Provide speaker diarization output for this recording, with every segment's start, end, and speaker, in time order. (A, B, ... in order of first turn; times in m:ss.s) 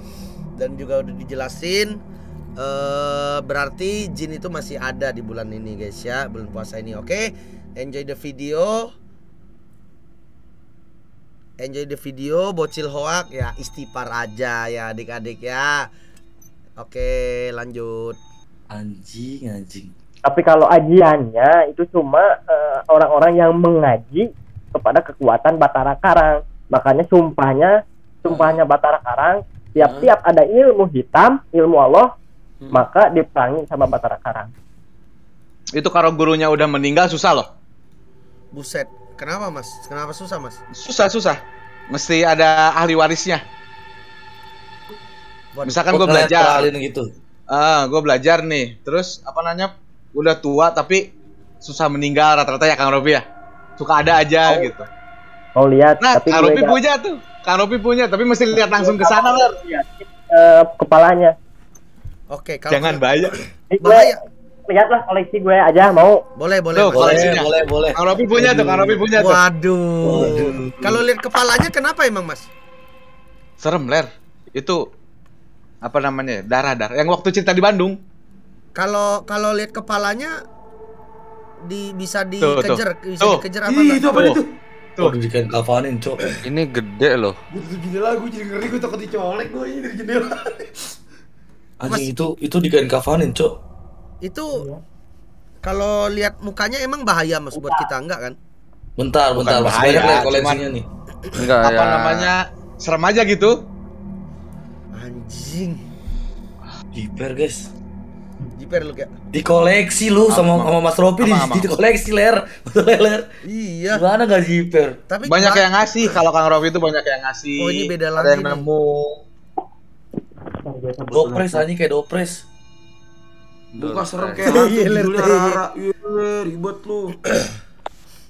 0:00.6-0:02.0 A
0:02.6-0:08.9 A
0:11.6-0:15.9 A
0:16.8-0:18.2 A
0:18.7-0:19.9 B
0:20.2-0:27.7 C
0:28.2-0:32.1 C
0:28.2-0:28.6 B
0:29.8-0:30.1 B
0:32.7-0:34.5 C
0:35.7-0:37.5 D
0:38.5-0:40.6 A
0:40.7-0:41.4 D
0:41.9-0:43.4 D
0:45.5-0:45.8 A
0:45.6-0:46.7 D
0:45.9-0:47.1 B
0:47.5-0:51.0 D
0:51.6-0:53.2 D
0:53.8-0:54.9 D
0:55.6-0:56.8 C
0:56.0-0:59.6 D
0:58.6-1:01.3 C
1:02.3-1:03.0 A
1:02.7-1:03.4 D
1:03.8-1:04.2 A
1:03.8-1:04.1 C
1:04.7-1:06.2 C
1:06.4-1:07.4 A
1:06.7-1:09.4 D
1:06.9-1:09.0 B
1:09.1-1:12.5 A
1:10.0-1:10.8 B
1:13.6-1:14.8 D
1:15.8-1:18.0 D
1:18.7-1:20.3 A
1:21.6-1:24.1 A
1:22.4-1:23.4 D
1:23.6-1:24.5 E
1:24.1-1:24.4 D
1:25.0-1:26.2 B
1:26.4-1:27.4 F
1:27.5-1:30.9 E
1:31.8-1:33.6 B
1:31.8-1:32.1 A
1:34.2-1:34.7 A
1:35.6-1:38.4 A
1:39.0-1:40.8 B
1:39.4-1:40.7 D
1:41.3-1:42.3 F
1:41.6-1:43.6 D
1:44.9-1:45.8 A
1:46.9-1:47.7 B
1:48.5-1:49.1 A
1:49.3-1:53.2 B
1:50.3-1:51.7 D
1:53.4-1:54.0 A
1:53.9-1:55.0 B
1:55.1-1:56.2 A
1:55.2-1:59.2 D
1:57.6-1:58.7 A
2:00.7-2:01.2 C
2:01.1-2:02.4 B
2:03.7-2:04.4 F
2:03.8-2:07.2 E
2:04.4-2:05.6 A